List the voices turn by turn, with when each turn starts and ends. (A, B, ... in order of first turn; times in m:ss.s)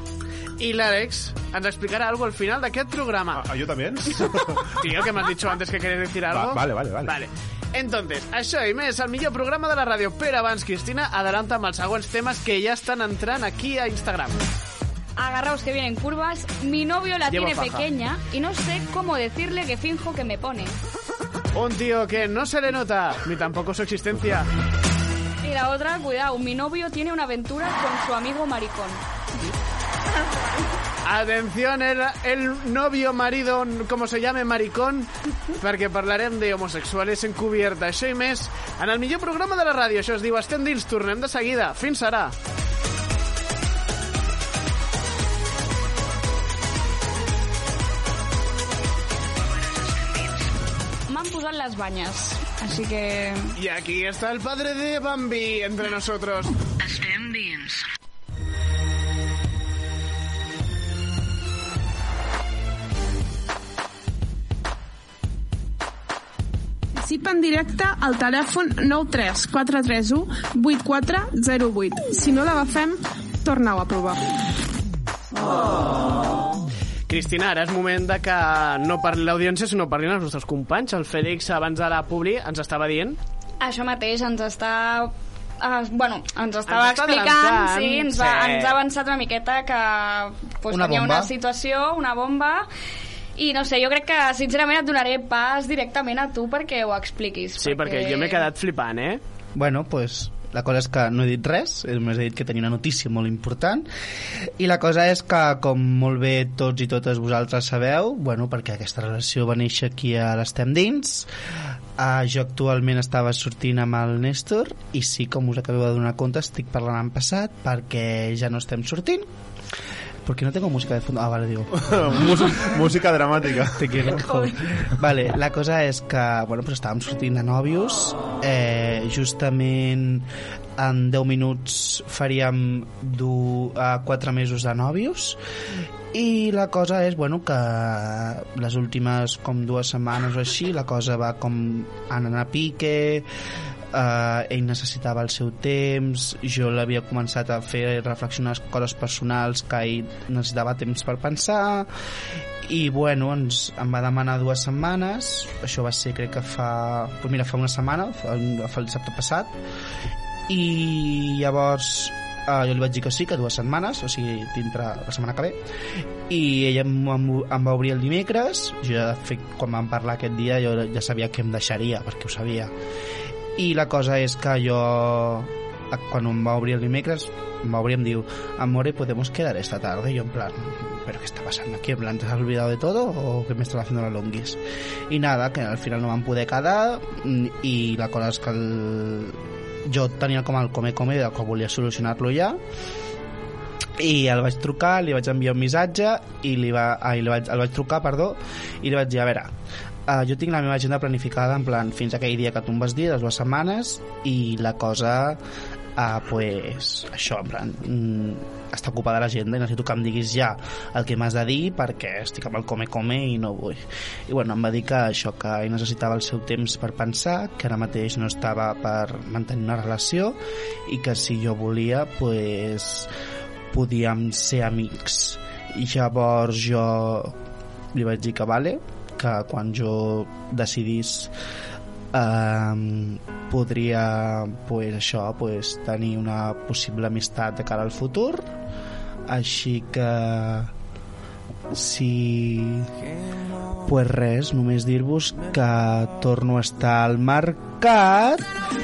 0:00.6-0:03.4 A
0:03.3-0:04.8 B
0:04.8-0:14.4 A
0:06.3-0:07.2 B
0:15.2-0:20.7 C
0:17.3-0:17.8 A
0:21.5-0:24.5 A
0:25.4-0:29.0 C
0:31.0-0:42.3 A
0:49.5-0:50.5 D
0:51.1-0:53.5 C
0:53.6-0:56.5 A
0:56.8-0:57.8 D
1:07.0-1:14.2 E
1:17.1-1:23.2 A
1:23.6-1:32.7 C
1:26.7-1:28.8 A
1:30.7-1:31.3 F
1:33.4-1:38.4 C
1:37.6-1:39.2 A
1:39.5-1:43.9 F
1:44.6-1:51.3 F
1:52.0-1:59.3 F
2:00.2-2:02.6 F
2:01.8-2:04.2 B
2:03.8-2:15.4 F
2:04.1-2:04.6 C
2:16.1-2:23.3 F
2:23.9-2:31.9 F
2:32.6-2:39.5 F
2:40.5-2:45.6 F
2:46.3-2:52.7 F
2:53.6-3:12.6 F
3:14.0-3:19.5 F
3:20.1-3:25.4 F
3:26.0-3:43.1 F
3:43.7-3:47.3 F
3:47.9-3:51.3 F
3:52.1-3:58.5 F
3:59.3-4:00.7 F
4:01.7-4:02.9 F
4:03.8-4:08.5 F